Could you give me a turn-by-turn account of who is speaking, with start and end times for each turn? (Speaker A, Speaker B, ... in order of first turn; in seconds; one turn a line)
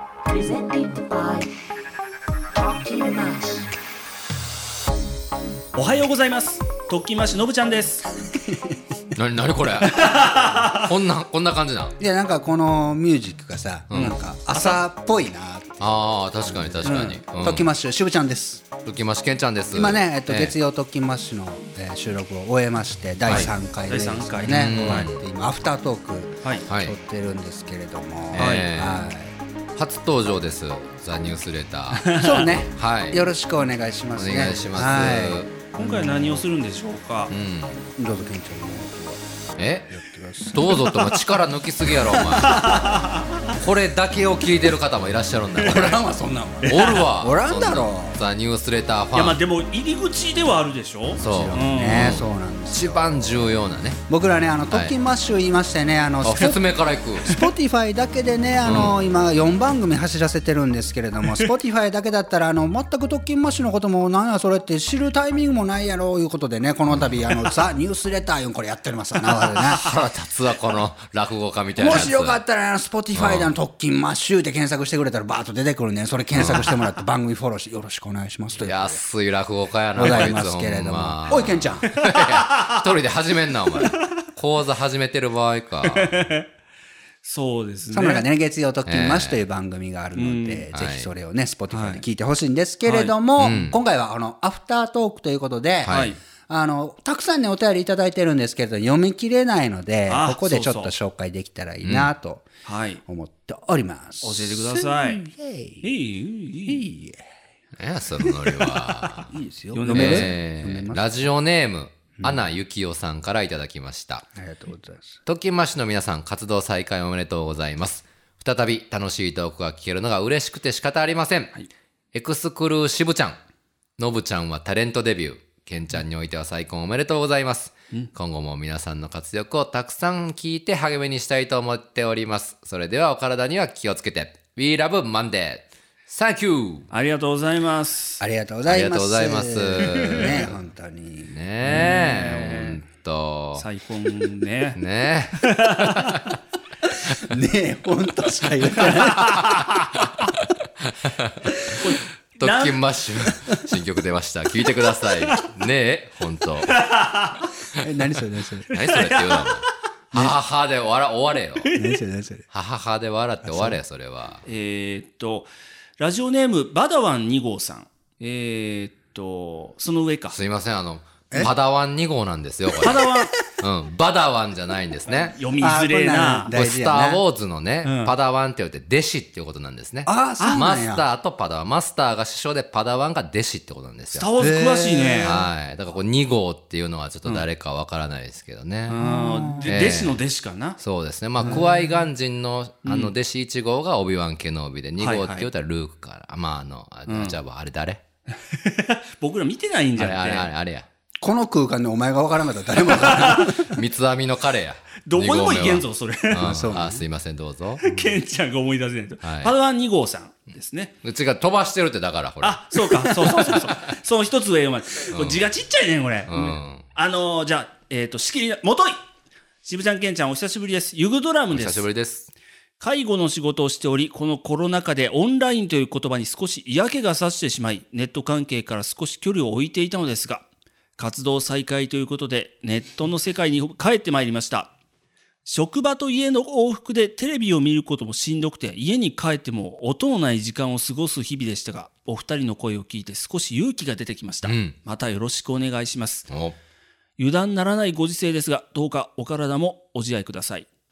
Speaker A: 0.3-1.5
Speaker A: 2.5-3.7
Speaker B: 5.8-8.1
Speaker C: 8.3-8.8
Speaker D: 9.2-12.0
Speaker B: 9.9-10.8
Speaker C: 12.0-15.9
Speaker D: 13.9-14.2
Speaker B: 13.9-14.8
Speaker D: 15.8-17.7
Speaker C: 16.4-18.7
Speaker D: 18.8-20.6
Speaker C: 19.7-29.4
Speaker B: 23.3-25.1
Speaker D: 24.4-25.2
Speaker D: 26.7-26.9
Speaker D: 28.3-29.1
Speaker B: 28.3-28.7
Speaker D: 29.8-33.2
Speaker B: 31.9-32.4
Speaker C: 32.1-36.0
Speaker D: 34.2-35.7
Speaker B: 35.7-37.3
Speaker D: 37.3-37.9
Speaker C: 38.0-39.2
Speaker D: 39.6-39.9
Speaker C: 39.9-41.0
Speaker D: 40.5-42.8
Speaker C: 42.1-42.7
Speaker B: 42.5-43.2
Speaker D: 43.5-46.0
Speaker C: 45.6-48.2
Speaker B: 46.6-47.1
Speaker D: 46.7-49.4
Speaker B: 49.1-52.2
Speaker D: 51.2-54.0
Speaker C: 51.2-53.2
Speaker C: 54.1-56.6
Speaker D: 54.7-55.0
Speaker D: 56.2-57.4
Speaker C: 57.2-69.9
Speaker D: 58.6-59.0
Speaker D: 67.0-67.2
Speaker D: 69.7-72.4
Speaker C: 71.8-79.0
Speaker D: 73.1-73.5
Speaker D: 76.3-76.7
Speaker D: 78.6-86.3
Speaker C: 80.0-82.0
Speaker B: 80.0-80.3
Speaker B: 82.0-82.8
Speaker B: 85.8-86.5
Speaker B: 87.2-88.3
Speaker C: 87.9-102.5
Speaker D: 88.8-89.4
Speaker B: 90.2-90.7
Speaker D: 90.7-91.1
Speaker B: 91.7-92.0
Speaker B: 92.9-93.3
Speaker D: 93.4-93.8
Speaker D: 95.8-96.2
Speaker B: 95.9-96.2
Speaker B: 100.1-100.9
Speaker D: 101.8-102.1
Speaker B: 102.6-103.0
Speaker C: 103.1-105.9
Speaker B: 104.2-105.2
Speaker B: 105.8-106.9
Speaker C: 106.7-107.2
Speaker D: 107.8-109.3
Speaker C: 108.2-111.3
Speaker B: 109.7-110.3
Speaker D: 109.9-114.2
Speaker C: 112.2-112.5
Speaker C: 114.4-115.2
Speaker D: 115.3-121.6
Speaker D: 122.1-123.4
Speaker D: 124.0-136.9
Speaker B: 136.9-138.2
Speaker C: 138.2-142.0
Speaker D: 138.7-140.6
Speaker D: 141.3-143.7
Speaker B: 141.7-142.8
Speaker B: 143.6-144.8
Speaker D: 144.8-146.2
Speaker B: 145.4-146.3
Speaker C: 147.2-149.4
Speaker D: 149.4-150.2
Speaker D: 151.0-156.8
Speaker B: 151.6-152.9
Speaker B: 156.7-157.5
Speaker C: 157.8-158.7
Speaker D: 158.7-161.8
Speaker B: 158.8-159.6
Speaker B: 161.6-161.9
Speaker C: 161.8-162.4
Speaker D: 162.5-164.4
Speaker C: 163.4-163.8
Speaker B: 164.5-170.4
Speaker D: 170.3-173.1
Speaker B: 172.8-173.4
Speaker D: 173.6-175.4
Speaker B: 175.2-176.6
Speaker C: 175.6-177.2
Speaker D: 176.5-184.3
Speaker B: 177.8-178.1
Speaker C: 180.1-181.1
Speaker B: 184.1-185.4
Speaker C: 184.4-185.4
Speaker D: 185.2-189.1
Speaker B: 188.9-190.8
Speaker C: 189.0-189.8
Speaker D: 189.7-190.2
Speaker D: 190.8-198.0
Speaker B: 192.8-193.1
Speaker B: 195.0-195.5
Speaker B: 197.1-197.4
Speaker B: 198.3-200.5
Speaker D: 200.0-200.9
Speaker C: 201.2-203.7
Speaker B: 202.9-203.6
Speaker D: 203.6-207.8
Speaker B: 205.1-206.6
Speaker C: 206.4-207.1
Speaker B: 207.8-211.0
Speaker C: 207.9-208.2
Speaker D: 209.2-209.6
Speaker D: 211.0-213.6
Speaker B: 212.4-219.0
Speaker D: 215.1-215.5
Speaker D: 216.3-216.9
Speaker B: 219.7-221.9
Speaker D: 221.5-222.3
Speaker B: 222.8-230.5
Speaker B: 231.0-234.7
Speaker B: 235.5-246.3
Speaker D: 244.4-244.8
Speaker D: 246.3-246.6
Speaker B: 247.2-250.7